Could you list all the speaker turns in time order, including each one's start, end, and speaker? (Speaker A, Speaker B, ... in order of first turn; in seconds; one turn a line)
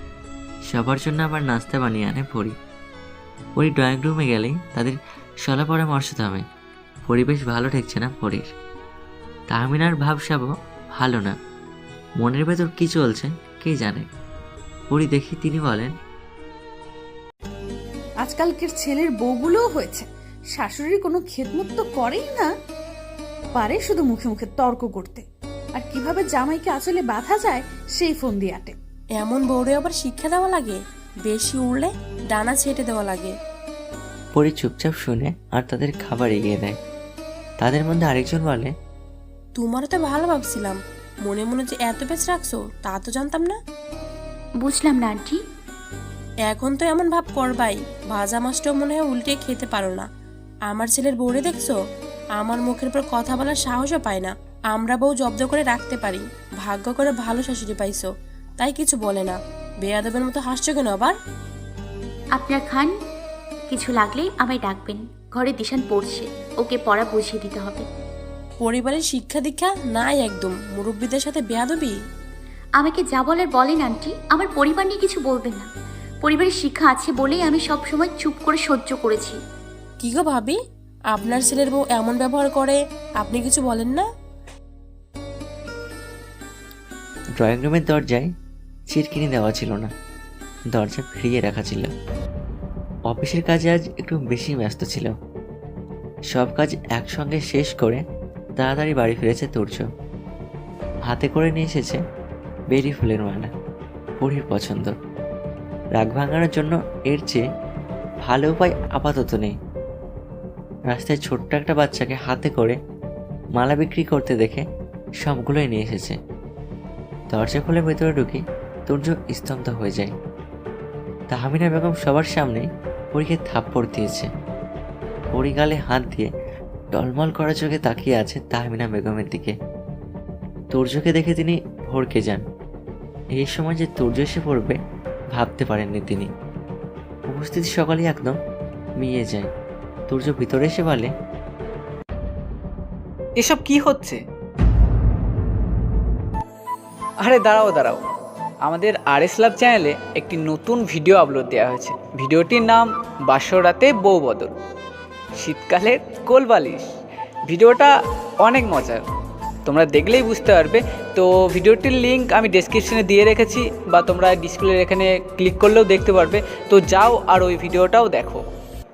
Speaker A: 0.7-2.5
Speaker A: 3.6-6.4
Speaker A: 7.1-8.5
Speaker A: 9.5-11.3
Speaker A: 12.2-14.1
Speaker A: 14.9-15.9
Speaker B: 18.2-22.5
Speaker B: 23.6-25.2
Speaker B: 25.8-28.8
Speaker C: 29.2-33.3
Speaker A: 34.3-36.8
Speaker A: 37.6-38.7
Speaker C: 39.6-43.5
Speaker D: 44.6-45.4
Speaker C: 46.5-50.0
Speaker C: 50.7-51.7
Speaker C: 52.4-58.1
Speaker C: 58.6-61.1
Speaker D: 62.4-62.9
Speaker D: 63.7-67.8
Speaker C: 68.6-71.9
Speaker D: 72.8-75.7
Speaker D: 76.2-79.4
Speaker C: 80.0-80.6
Speaker C: 81.1-84.0
Speaker A: 87.4-88.3
Speaker A: 88.9-89.9
Speaker A: 90.7-91.9
Speaker A: 93.1-95.1
Speaker A: 96.3-98.0
Speaker A: 98.6-99.8
Speaker A: 101.1-102.0
Speaker A: 102.7-103.5
Speaker A: 104.2-104.9
Speaker A: 106.0-107.4
Speaker A: 108.2-109.5
Speaker A: 110.9-112.8
Speaker A: 113.6-114.6
Speaker A: 115.2-116.2
Speaker A: 117.3-120.1
Speaker A: 121.3-124.3
Speaker A: 125.3-126.3
Speaker A: 126.9-129.5
Speaker A: 130.7-132.4
Speaker A: 133.4-134.8
Speaker A: 135.3-136.3
Speaker A: 137.3-138.3
Speaker A: 139.0-139.5
Speaker A: 140.1-141.1
Speaker E: 143.4-144.2
Speaker E: 147.2-148.0
Speaker E: 148.7-154.5
Speaker E: 155.4-156.9
Speaker E: 157.5-157.9
Speaker E: 158.4-159.0
Speaker E: 159.7-168.4